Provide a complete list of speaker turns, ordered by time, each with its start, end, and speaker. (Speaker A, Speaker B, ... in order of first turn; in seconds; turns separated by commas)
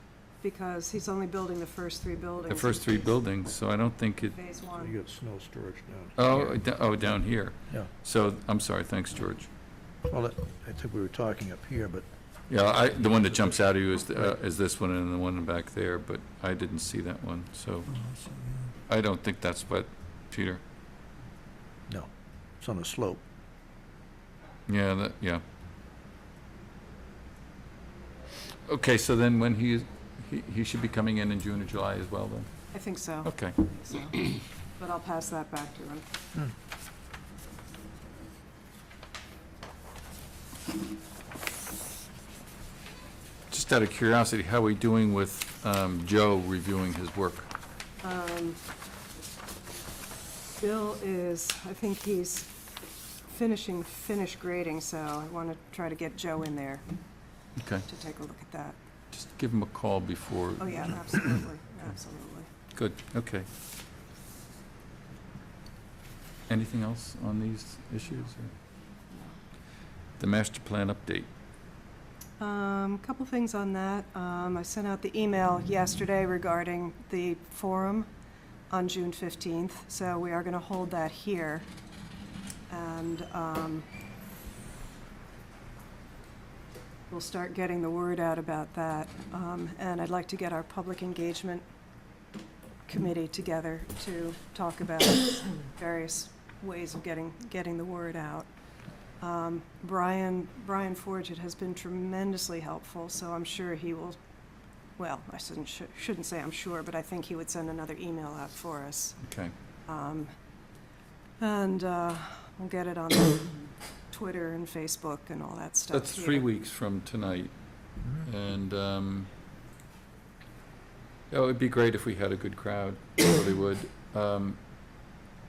Speaker A: 0.4-3.1, Speaker B: 2.5-4.3, Speaker A: 4.3-4.9, Speaker C: 4.8-6.6, Speaker B: 6.2-9.5, Speaker C: 10.1-12.0, Speaker B: 12.5-17.9, Speaker B: 18.9-20.6, Speaker C: 22.6-23.2, Speaker B: 24.7-25.4, Speaker B: 28.7-32.5, Speaker A: 32.7-34.3, Speaker B: 33.2-33.6, Speaker A: 34.8-36.0, Speaker B: 43.5-47.5, Speaker A: 48.0-48.6, Speaker A: 50.6-52.5, Speaker A: 53.3-56.8, Speaker B: 57.6-57.9, Speaker A: 57.9-58.8, Speaker B: 59.1-60.9, Speaker A: 60.6-62.5, Speaker B: 62.7-63.5, Speaker B: 66.5-68.5, Speaker A: 69.1-69.4, Speaker B: 70.2-71.3, Speaker A: 72.4-78.1, Speaker A: 78.7-81.7, Speaker A: 82.7-83.9, Speaker A: 87.1-91.6, Speaker A: 92.8-98.5, Speaker A: 99.2-104.2, Speaker A: 105.0-109.2, Speaker B: 109.2-109.5, Speaker A: 109.8-110.3, Speaker A: 111.4-113.6, Speaker A: 114.1-116.4, Speaker B: 115.9-119.3, Speaker B: 121.3-124.6